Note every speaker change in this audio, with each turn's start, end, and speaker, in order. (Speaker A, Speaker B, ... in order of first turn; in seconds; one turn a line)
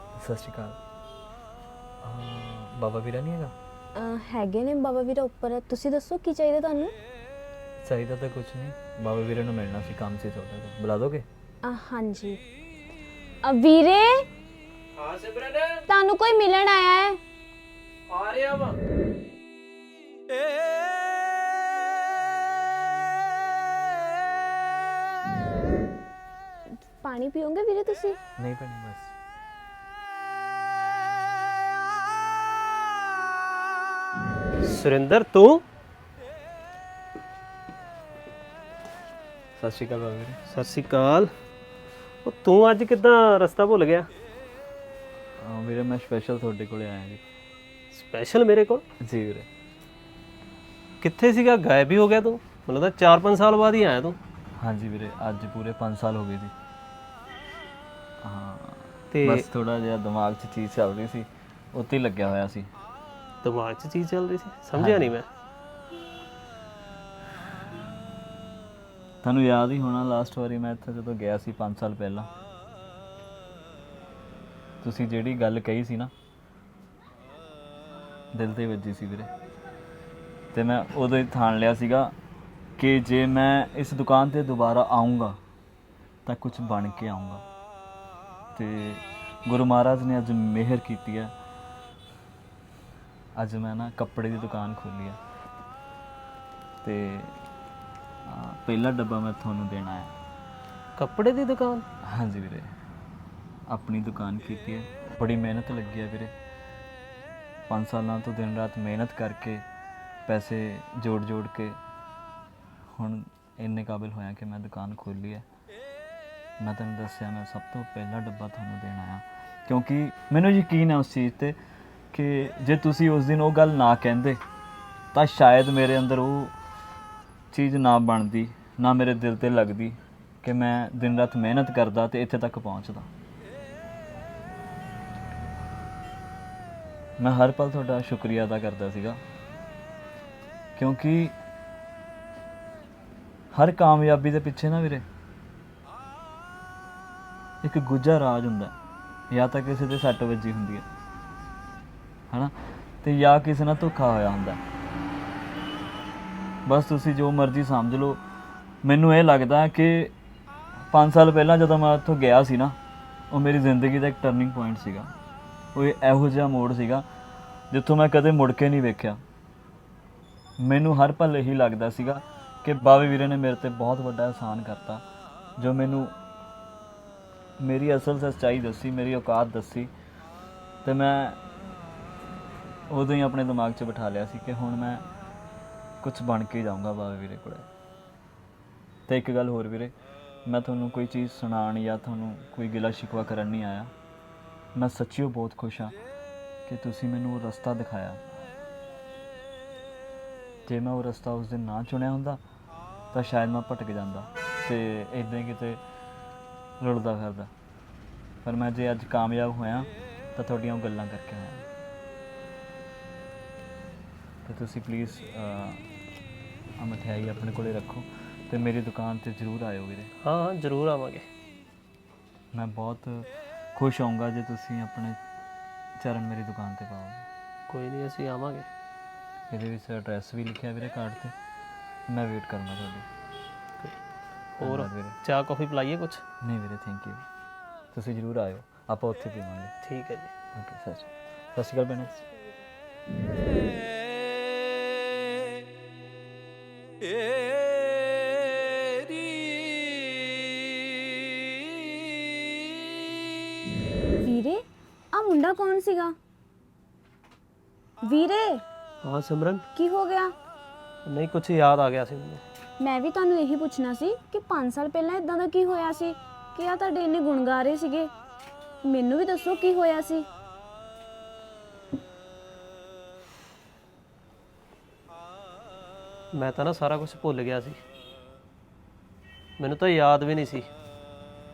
Speaker A: 0.2-0.8
Speaker A: 2.0-3.5
Speaker B: 3.9-6.9
Speaker A: 7.8-11.2
Speaker B: 11.6-12.4
Speaker B: 13.4-14.2
Speaker C: 15.0-15.8
Speaker B: 15.9-17.2
Speaker C: 18.1-18.8
Speaker B: 26.8-28.2
Speaker A: 28.4-29.1
Speaker C: 34.6-35.6
Speaker A: 39.6-40.4
Speaker C: 40.5-41.3
Speaker C: 42.2-44.1
Speaker A: 45.4-47.2
Speaker C: 47.9-48.8
Speaker A: 49.0-49.5
Speaker C: 51.0-54.2
Speaker A: 54.6-56.5
Speaker A: 58.2-62.7
Speaker C: 59.1-59.5
Speaker C: 63.4-65.2
Speaker A: 64.7-65.2
Speaker A: 69.2-72.3
Speaker A: 74.8-76.1
Speaker A: 78.3-79.3
Speaker A: 80.5-82.1
Speaker A: 82.8-85.4
Speaker A: 86.2-87.4
Speaker A: 88.5-91.3
Speaker A: 93.3-95.2
Speaker A: 96.8-97.3
Speaker A: 98.2-100.1
Speaker C: 101.0-101.8
Speaker A: 102.0-102.7
Speaker A: 103.7-106.3
Speaker A: 107.7-109.6
Speaker A: 110.2-111.8
Speaker A: 112.9-115.5
Speaker A: 116.6-121.6
Speaker A: 122.1-124.4
Speaker A: 125.1-126.5
Speaker A: 127.5-133.1
Speaker A: 137.2-139.2
Speaker A: 140.8-141.3
Speaker A: 143.5-145.0
Speaker A: 147.6-148.7
Speaker A: 149.3-150.8
Speaker A: 152.3-154.6
Speaker A: 156.7-158.2
Speaker A: 158.8-160.1
Speaker A: 160.9-162.8
Speaker A: 163.3-165.1
Speaker A: 165.7-167.1
Speaker A: 167.7-169.2
Speaker A: 170.6-175.0
Speaker A: 175.6-176.1
Speaker A: 177.6-179.9
Speaker A: 180.8-181.4
Speaker A: 182.9-185.0
Speaker A: 186.0-187.7
Speaker A: 189.1-189.9
Speaker A: 190.4-193.9
Speaker A: 194.7-195.9
Speaker A: 196.7-198.2
Speaker A: 200.7-202.4
Speaker A: 203.1-205.8
Speaker A: 206.8-207.5
Speaker A: 208.4-211.6
Speaker A: 214.4-215.8
Speaker A: 216.8-220.1
Speaker C: 220.2-221.2
Speaker A: 222.5-225.2
Speaker A: 226.0-227.2
Speaker C: 227.7-228.7
Speaker A: 229.5-231.3
Speaker A: 232.1-233.1
Speaker C: 234.6-236.2
Speaker A: 234.6-235.2
Speaker A: 236.4-237.2
Speaker A: 237.9-239.7
Speaker C: 239.8-240.3
Speaker A: 240.5-242.2
Speaker B: 254.2-254.6
Speaker B: 255.1-256.1
Speaker B: 258.0-258.6
Speaker C: 259.0-259.6
Speaker B: 259.7-260.3
Speaker C: 261.1-262.4
Speaker B: 262.8-268.1
Speaker B: 268.8-270.2
Speaker C: 276.3-277.8
Speaker C: 279.6-280.7